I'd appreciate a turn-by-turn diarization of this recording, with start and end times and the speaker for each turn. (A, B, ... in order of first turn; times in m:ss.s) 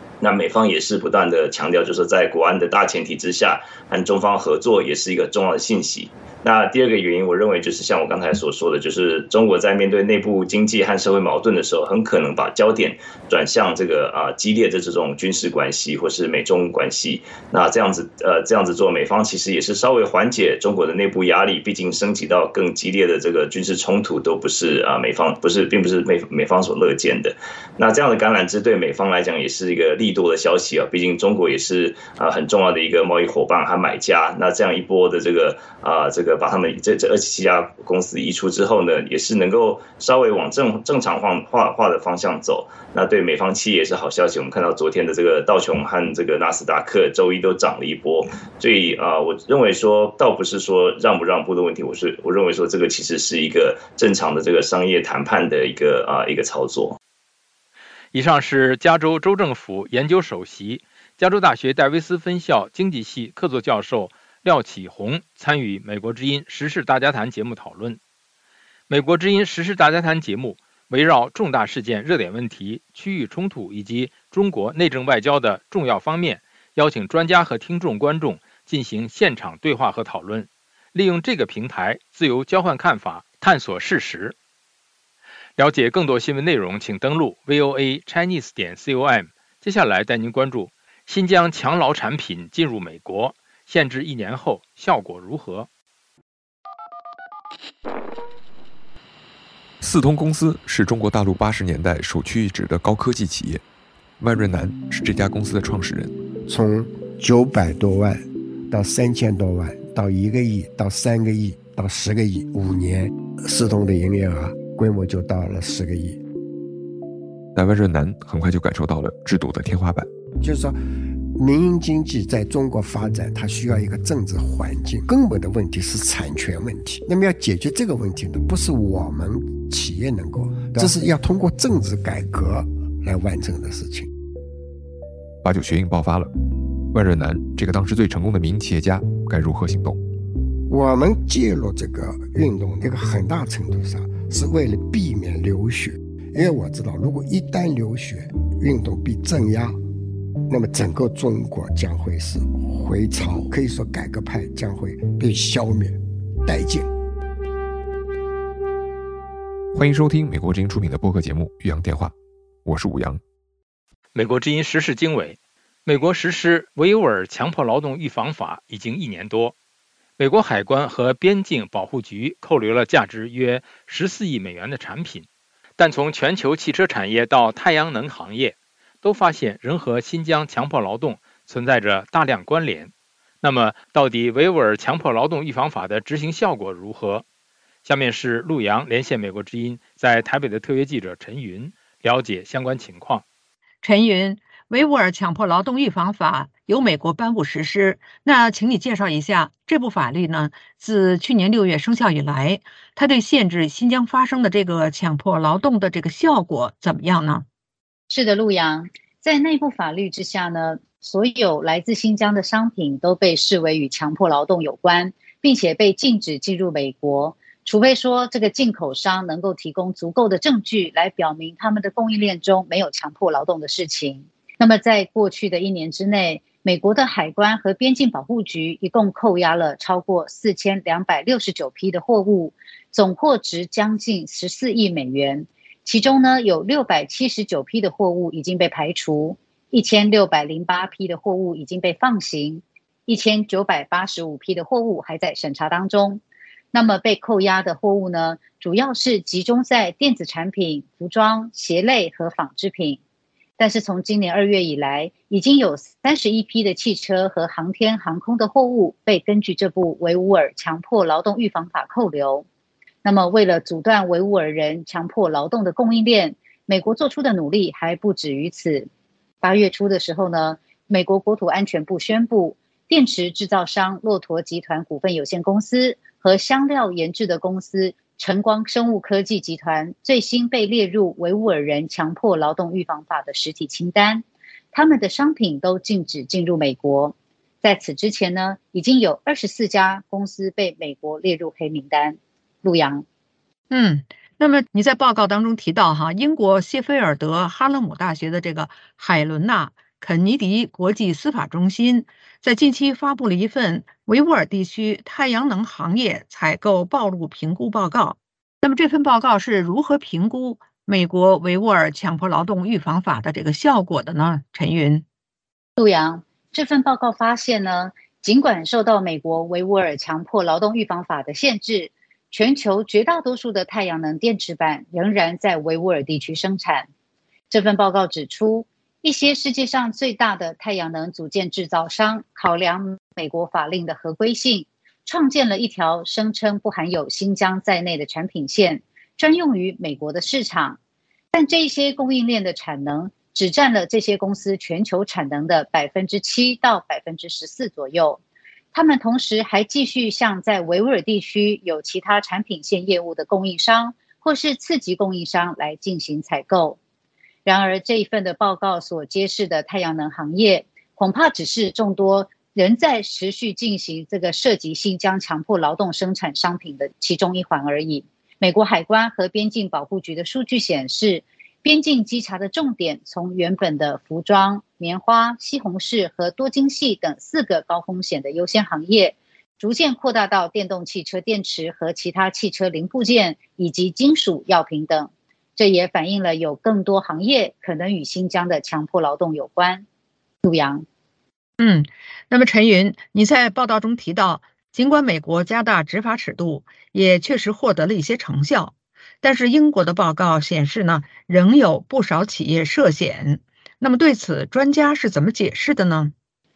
0:00.2-0:57.0 A
0:58.1-1:08.0 B
1:08.9-1:24.4 B
1:25.6-1:35.7 B
1:39.8-1:43.6 C
1:44.2-1:46.1 C
1:46.5-1:56.2 D
1:57.5-2:00.1 C
2:00.4-2:00.8 D
2:01.3-2:14.1 D
2:15.4-2:16.3 C
2:16.9-2:20.0 C
2:20.7-2:29.8 D
2:30.5-2:36.9 D
2:39.7-2:42.1 C
2:42.6-2:43.2 C
2:44.1-2:49.5 B
2:50.2-3:07.2 B
3:07.8-3:13.2 B
3:13.8-3:27.4 E
3:28.1-4:06.2 F
4:06.7-4:13.0 F
4:13.6-4:22.4 F
4:23.0-4:28.9 F
4:29.4-4:53.0 F
4:53.7-5:15.0 E
5:15.8-5:26.9 F
5:27.5-5:40.8 F
5:41.3-5:48.2 F
5:48.7-5:56.8 F
5:57.4-6:29.8 F
6:30.4-6:30.8 F
6:31.6-6:46.1 E